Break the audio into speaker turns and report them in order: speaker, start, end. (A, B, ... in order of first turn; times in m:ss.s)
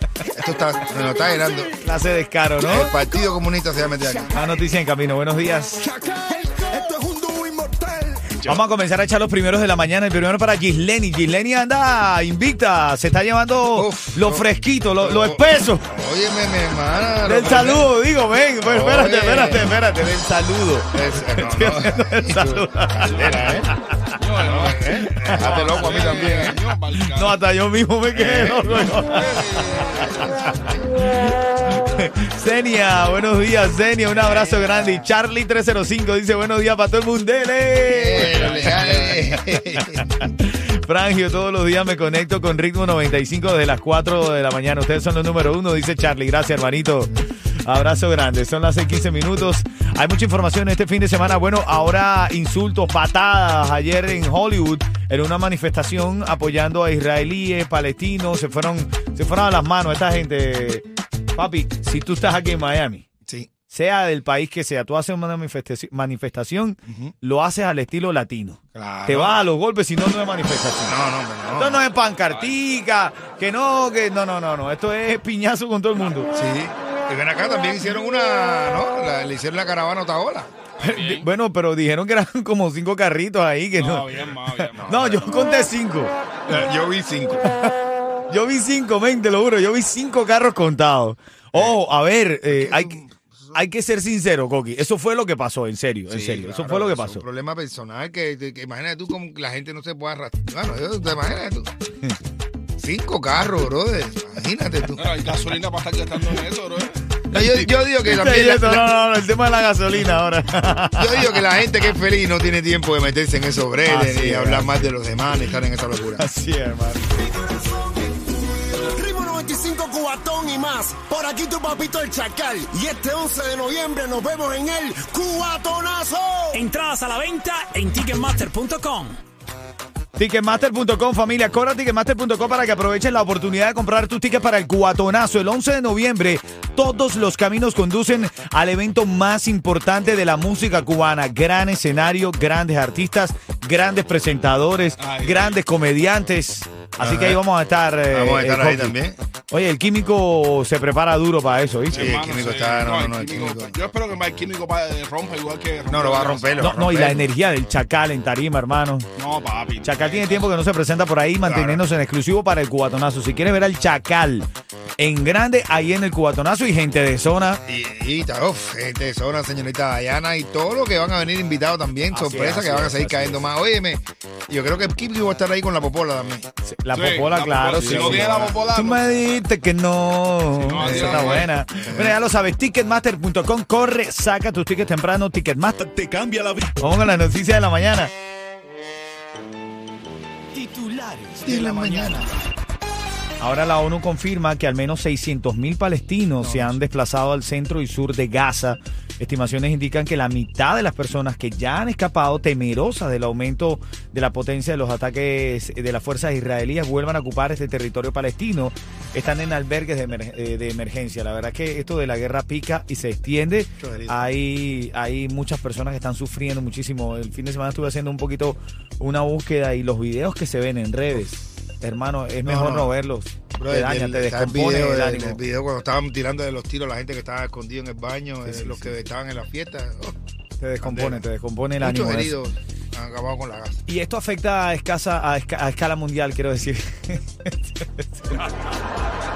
0:00.2-0:01.7 A
0:01.8-0:02.9 B
0:02.6-0:04.3 A
0:04.3-0:05.8 B
0:05.8-0:08.3 C
0:08.4-0:15.8 B
0:13.7-0:17.9 A
0:17.2-0:24.1 B
0:18.6-0:19.8 A
0:20.9-0:23.7 A
0:24.2-0:27.4 D
0:24.4-0:26.6 A
0:25.0-0:26.5 B
0:27.0-0:29.3 B
0:28.1-0:28.7 A
0:28.7-0:30.2 D
0:29.8-0:30.8 A
0:31.0-1:03.0 B
0:37.9-0:40.0 A
0:38.2-0:38.9 D
1:03.7-1:11.0 B
1:06.9-1:07.1 A
1:08.7-1:09.4 A
1:10.9-1:11.9 A
1:11.5-1:16.3 B
1:16.3-1:20.5 A
1:20.8-1:21.3 D
1:20.8-1:24.0 B
1:23.8-1:25.5 D
1:24.8-1:26.1 B
1:26.5-1:27.4 A
1:28.3-1:33.0 B
1:32.5-1:33.6 A
1:33.5-1:37.2 B
1:36.1-1:41.7 A
1:42.8-1:45.0 A
1:45.0-1:47.1 D
1:47.3-1:48.9 A
1:47.3-1:51.4 B
1:51.0-1:56.2 A
1:53.8-1:54.8 B
1:56.2-1:57.1 B
1:57.4-2:06.7 C
2:06.5-2:09.2 E
2:10.2-2:29.0 B
2:25.0-2:25.6 D
2:27.0-2:27.4 A
2:28.1-2:29.2 A
2:29.5-2:32.2 B
2:31.9-2:36.7 D
2:31.9-2:33.8 A
2:35.9-2:37.2 A
2:36.6-2:39.1 B
2:39.2-2:40.5 D
2:39.8-2:44.4 B
2:41.4-2:41.8 A
2:45.0-2:47.6 B
2:47.6-2:56.4 A
2:52.1-2:53.4 B
2:56.6-3:08.1 B
2:56.9-2:59.4 D
2:57.8-2:58.5 A
3:00.6-3:01.5 D
3:00.8-3:02.2 A
3:10.5-3:12.2 B
3:11.4-3:12.3 A
3:13.4-3:45.4 B
3:33.8-3:34.3 A
3:42.4-3:42.9 A
3:43.6-3:50.1 A
3:48.4-3:49.0 B
3:50.6-3:52.4 B
3:50.8-3:51.2 A
3:51.8-3:53.8 A
3:53.9-3:58.4 B